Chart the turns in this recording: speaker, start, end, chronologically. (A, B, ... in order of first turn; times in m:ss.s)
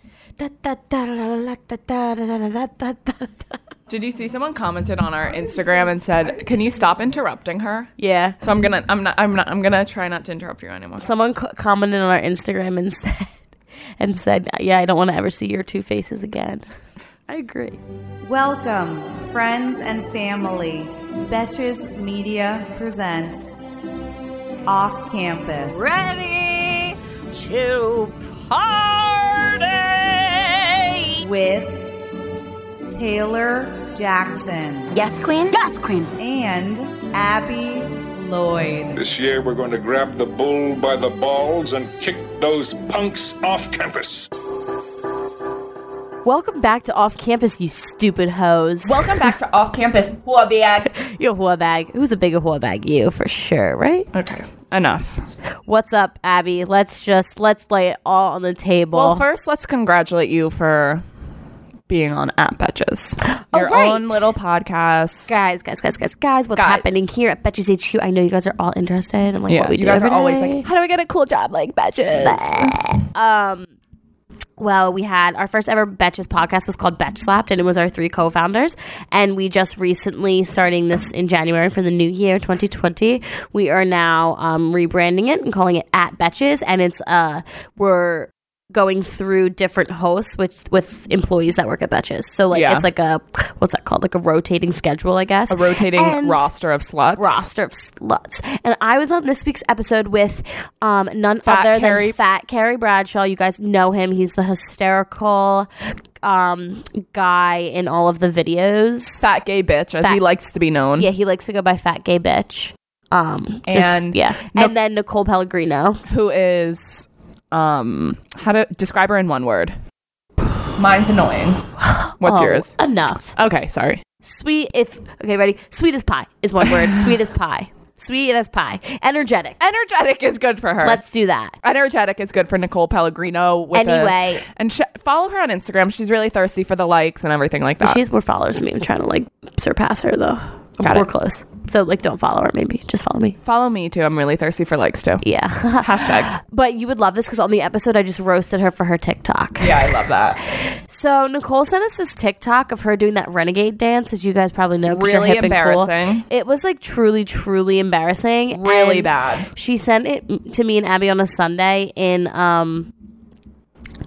0:00.4-0:03.6 A
0:03.9-0:11.1 B
0:08.0-0:08.4 A
0:11.0-0:13.4 A
0:14.0-0:16.8 A
0:17.3-0:17.8 A
0:18.2-0:23.5 C
0:24.6-0:25.8 C
0:25.7-0:31.2 D
0:31.2-0:31.8 C
0:32.9-0:34.9 C
0:34.9-0:36.1 D
0:36.2-0:39.0 C
0:38.9-0:44.3 E
0:46.2-0:49.3 A
0:48.8-0:50.9 B
0:50.9-0:54.1 A
0:54.1-0:55.2 B
0:55.6-0:59.2 A
0:58.9-1:01.0 B
1:01.9-1:05.3 B
1:03.2-1:04.3 A
1:05.3-1:10.6 A
1:06.6-1:06.9 B
1:09.5-1:12.8 B
1:12.2-1:13.7 A
1:14.6-1:36.5 A
1:32.5-1:32.8 B
1:35.5-1:37.4 B
1:37.2-1:45.7 A
1:41.4-1:42.1 B
1:46.2-1:49.3 A
1:49.2-1:51.1 B
1:51.0-1:56.0 A
1:53.7-1:54.7 B
1:56.1-1:59.7 B
2:00.8-2:01.6 B
2:01.8-2:03.3 A
2:02.2-2:02.7 B
2:03.3-2:04.0 B
2:04.2-2:09.6 A
2:09.6-2:11.0 B
2:10.8-2:11.5 A
2:11.6-2:18.0 B
2:13.7-2:14.4 A
2:17.8-2:23.4 A
2:23.4-2:25.2 B
2:25.2-2:29.7 A
2:25.8-2:26.4 B
2:29.6-2:30.4 B
2:30.4-2:42.9 A
2:34.8-2:36.2 B
2:38.5-2:39.5 B